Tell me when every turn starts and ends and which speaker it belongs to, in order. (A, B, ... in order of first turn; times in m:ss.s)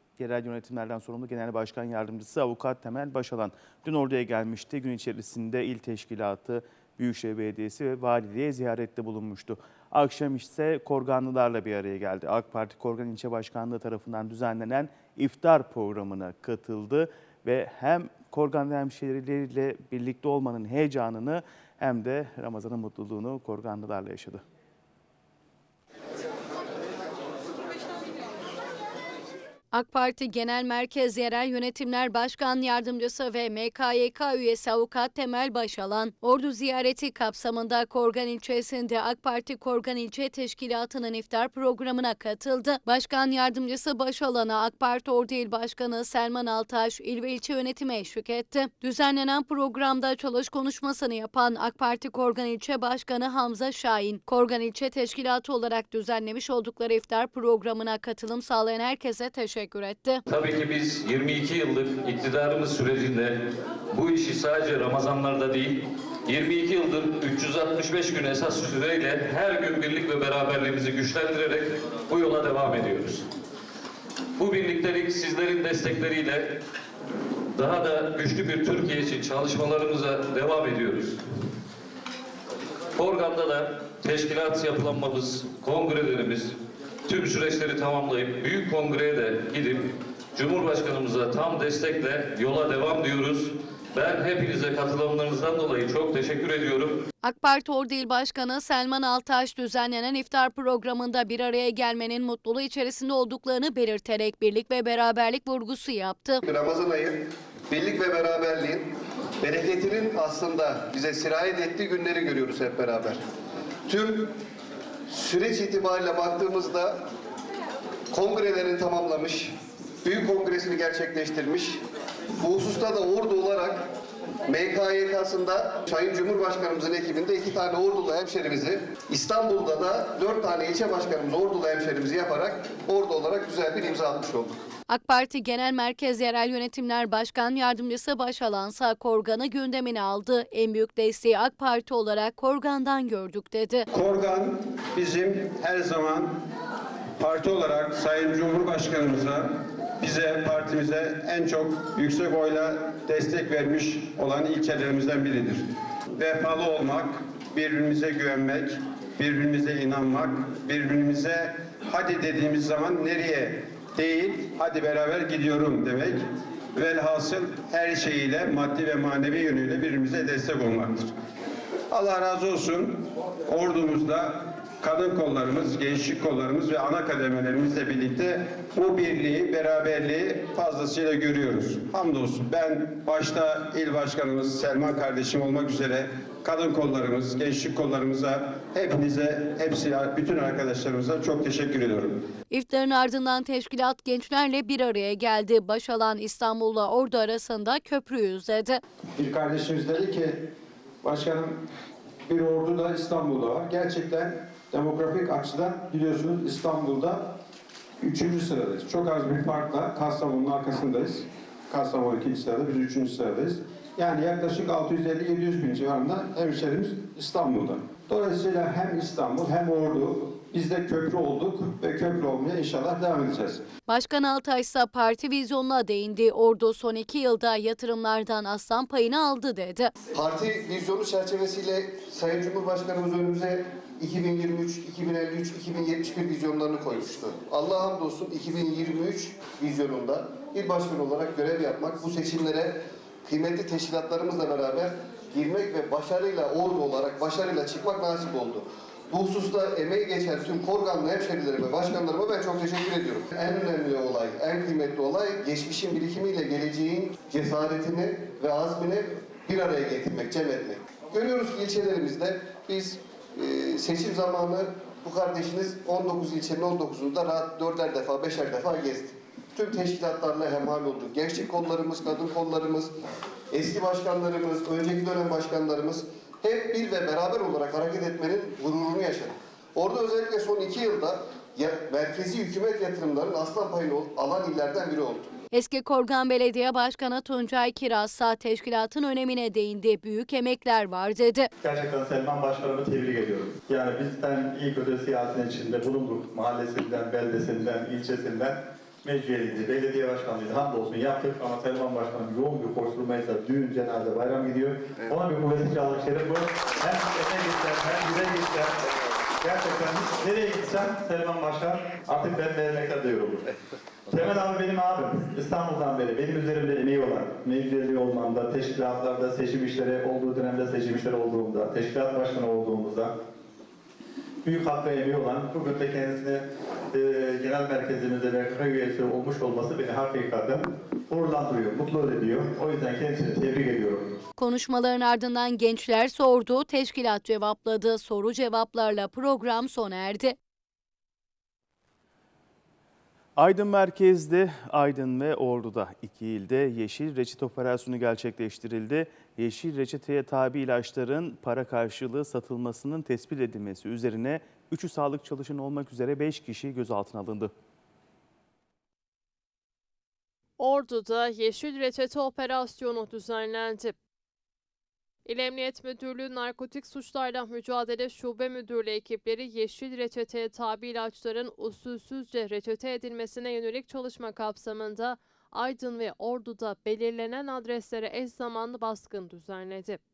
0:00.2-0:24.4 A
0:29.7-1:00.2 B
1:00.3-1:13.3 C
1:14.4-1:16.6 C
1:17.5-1:21.2 C
1:22.9-1:37.0 C
1:37.2-1:46.4 B
1:46.4-1:53.2 D
1:53.9-1:54.3 D
1:55.1-1:57.0 D
1:58.1-2:01.8 D
2:02.4-2:03.8 D
2:04.5-2:14.5 D
2:14.9-2:23.9 B
2:23.9-2:26.4 E
2:27.2-2:46.2 E
2:46.7-2:51.1 E
2:51.9-3:12.2 E
3:12.5-3:18.8 B
3:19.2-3:20.5 E
3:21.0-3:21.6 E
3:22.3-3:27.3 E
3:28.0-3:43.6 E
3:43.9-3:49.9 B
3:50.1-4:32.9 D
4:33.5-4:45.3 D
4:45.5-4:51.5 B
4:51.6-5:08.8 F
5:09.4-5:13.5 F
5:14.1-5:23.1 F
5:24.4-5:34.1 F
5:34.4-5:40.4 B
5:43.4-5:57.5 A
6:00.6-6:04.0 G
6:05.2-6:20.0 G